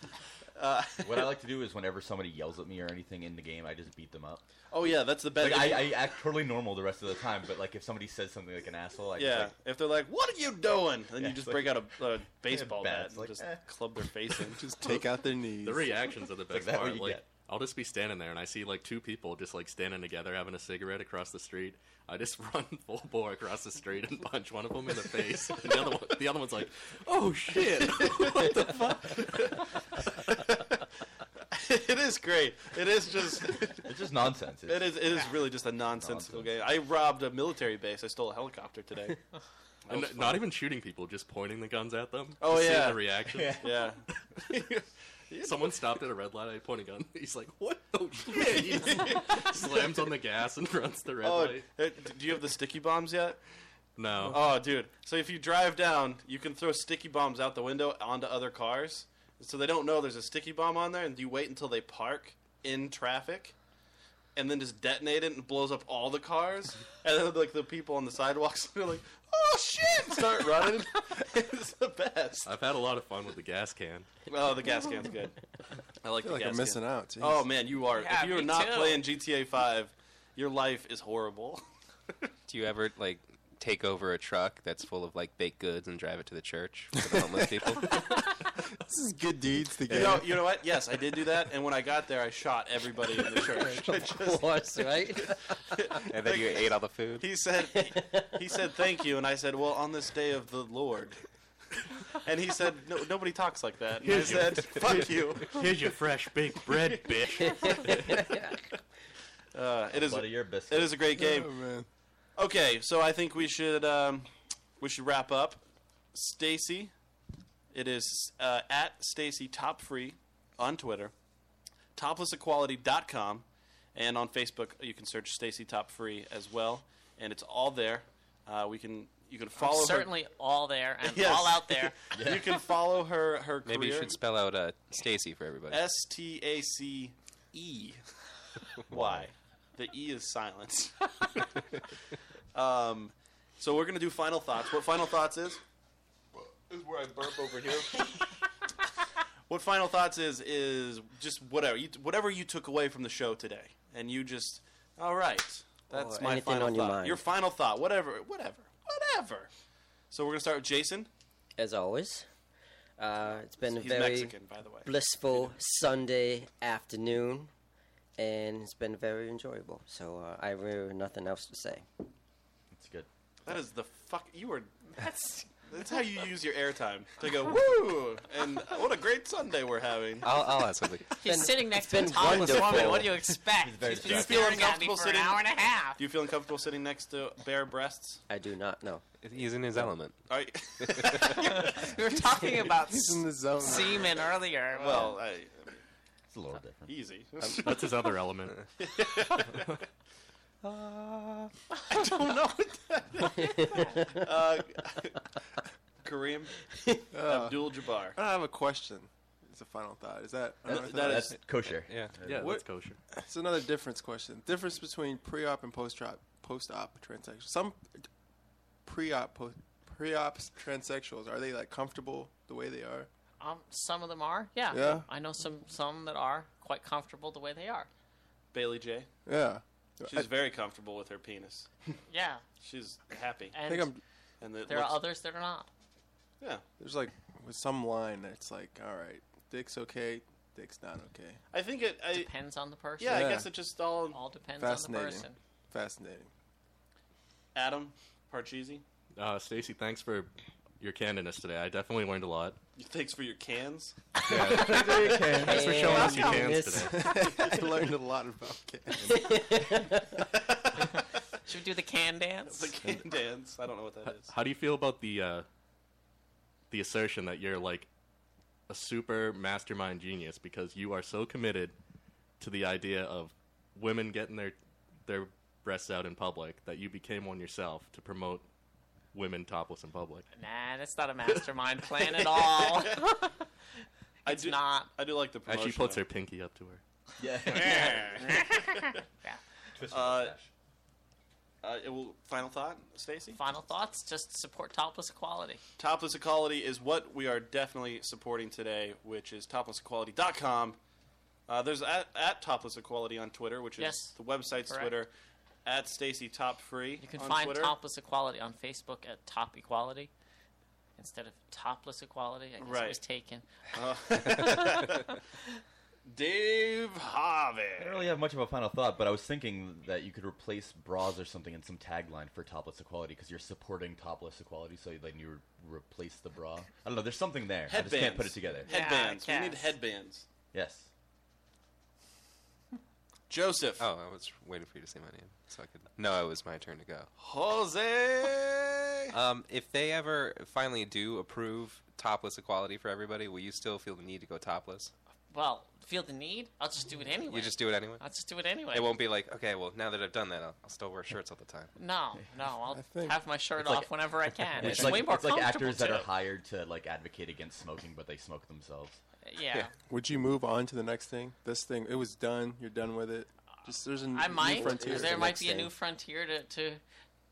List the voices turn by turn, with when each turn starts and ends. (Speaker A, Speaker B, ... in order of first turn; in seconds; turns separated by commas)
Speaker A: 0.6-1.4, Speaker B: 1.0-4.5, Speaker A: 4.7-6.1, Speaker B: 5.4-9.5, Speaker A: 9.2-14.7, Speaker B: 11.2-14.5, Speaker C: 14.6-16.0, Speaker D: 15.6-29.6, Speaker B: 16.5-17.3, Speaker A: 27.8-30.8, Speaker A: 31.5-33.9, Speaker B: 33.8-35.3, Speaker A: 34.7-39.2, Speaker B: 35.9-36.6, Speaker A: 39.9-40.4, Speaker D: 39.9-43.6, Speaker A: 42.4-45.8, Speaker B: 43.3-43.9, Speaker D: 45.4-51.7, Speaker A: 48.3-49.9, Speaker A: 51.2-53.4, Speaker D: 54.0-54.5, Speaker A: 54.2-63.6, Speaker A: 64.4-72.5, Speaker D: 72.5-74.1, Speaker A: 74.3-75.4, Speaker A: 76.0-81.6, Speaker C: 76.2-77.5, Speaker E: 77.9-79.0, Speaker F: 82.5-88.3, Speaker C: 87.0-88.1, Speaker C: 88.8-90.5, Speaker A: 89.9-101.2, Speaker G: 93.5-95.4, Speaker F: 96.1-97.3, Speaker G: 97.7-98.3, Speaker A: 102.1-105.7, Speaker D: 104.0-108.3, Speaker A: 107.5-108.5, Speaker A: 109.5-111.5, Speaker B: 109.9-111.0, Speaker C: 111.1-111.9, Speaker A: 112.4-115.6, Speaker A: 116.1-116.9, Speaker A: 117.7-121.1, Speaker A: 122.0-130.2, Speaker E: 129.6-131.9, Speaker A: 131.1-134.2, Speaker B: 132.1-132.7, Speaker F: 133.7-135.8, Speaker A: 135.7-138.0, Speaker A: 138.9-141.5, Speaker B: 138.9-139.3, Speaker A: 142.5-145.6, Speaker A: 146.7-148.1, Speaker A: 149.5-159.5, Speaker G: 155.9-157.2, Speaker A: 160.1-161.1, Speaker G: 161.6-162.3, Speaker G: 163.0-167.5, Speaker A: 163.6-164.9, Speaker G: 168.2-171.9, Speaker B: 172.7-173.1, Speaker A: 173.5-174.9, Speaker E: 175.0-175.5, Speaker A: 175.7-180.5, Speaker F: 180.2-181.2, Speaker E: 181.2-186.0, Speaker G: 181.2-183.3, Speaker B: 183.6-184.6, Speaker A: 183.8-188.2, Speaker G: 188.3-189.0, Speaker F: 189.2-190.3, Speaker A: 190.3-191.9, Speaker F: 190.8-191.2, Speaker E: 191.4-195.1, Speaker C: 192.5-194.2, Speaker A: 194.7-195.8, Speaker B: 196.3-196.9, Speaker A: 196.9-198.2, Speaker D: 197.6-198.6, Speaker A: 198.8-199.8, Speaker A: 201.9-205.2, Speaker A: 206.0-206.7, Speaker C: 207.1-211.3, Speaker A: 207.2-208.2, Speaker A: 210.7-211.3, Speaker B: 210.7-212.6, Speaker F: 211.8-212.1, Speaker D: 212.2-213.0, Speaker C: 212.3-212.6, Speaker C: 213.2-218.1, Speaker C: 218.8-223.1, Speaker E: 223.4-227.9, Speaker C: 224.7-225.1, Speaker A: 228.5-229.1, Speaker C: 229.3-230.3, Speaker A: 230.1-231.7, Speaker E: 232.1-232.4, Speaker A: 232.6-233.6, Speaker E: 233.5-233.9, Speaker C: 233.6-234.0, Speaker A: 234.4-235.0, Speaker E: 234.7-235.7, Speaker C: 236.8-241.4, Speaker A: 241.5-242.3, Speaker E: 242.1-243.3, Speaker A: 243.0-244.2, Speaker C: 243.1-243.5, Speaker E: 244.1-245.4, Speaker C: 244.6-246.3, Speaker A: 247.6-248.8, Speaker D: 249.2-252.6, Speaker A: 252.8-254.3, Speaker D: 254.2-257.2, Speaker B: 254.4-255.8, Speaker G: 255.2-257.6, Speaker C: 255.6-259.4, Speaker G: 259.1-260.2, Speaker A: 260.2-261.0, Speaker E: 261.5-262.7, Speaker A: 262.5-264.3, Speaker D: 264.2-265.5, Speaker D: 266.7-267.9, Speaker D: 268.7-271.8, Speaker D: 272.4-278.5, Speaker D: 279.1-280.3, Speaker E: 280.3-283.4, Speaker A: 282.1-283.1, Speaker A: 284.2-286.0, Speaker E: 284.3-284.9, Speaker D: 285.5-286.8, Speaker B: 287.2-288.2, Speaker A: 287.4-288.9, Speaker E: 287.5-289.4, Speaker B: 289.8-290.5, Speaker A: 289.9-290.4, Speaker A: 291.6-293.4, Speaker E: 293.4-295.6, Speaker A: 295.8-300.8, Speaker A: 301.5-305.1, Speaker E: 303.8-304.2, Speaker E: 304.7-304.9, Speaker A: 305.6-307.8, Speaker E: 307.0-310.1, Speaker E: 311.0-313.5, Speaker A: 312.6-313.0, Speaker A: 313.7-315.1, Speaker E: 314.3-314.6, Speaker A: 316.1-318.1, Speaker B: 317.8-328.7, Speaker A: 327.7-330.3, Speaker E: 328.7-329.7, Speaker B: 330.5-330.9, Speaker A: 333.3-333.9, Speaker F: 333.8-337.1, Speaker A: 337.2-339.1, Speaker F: 339.1-344.9, Speaker E: 345.3-348.9, Speaker F: 347.3-348.0, Speaker F: 348.7-351.7, Speaker E: 351.8-356.1, Speaker C: 352.7-353.2, Speaker B: 353.6-353.9, Speaker B: 354.6-359.0, Speaker C: 354.6-355.0, Speaker E: 359.2-359.7, Speaker C: 359.9-365.4, Speaker E: 364.1-366.8, Speaker G: 364.6-365.7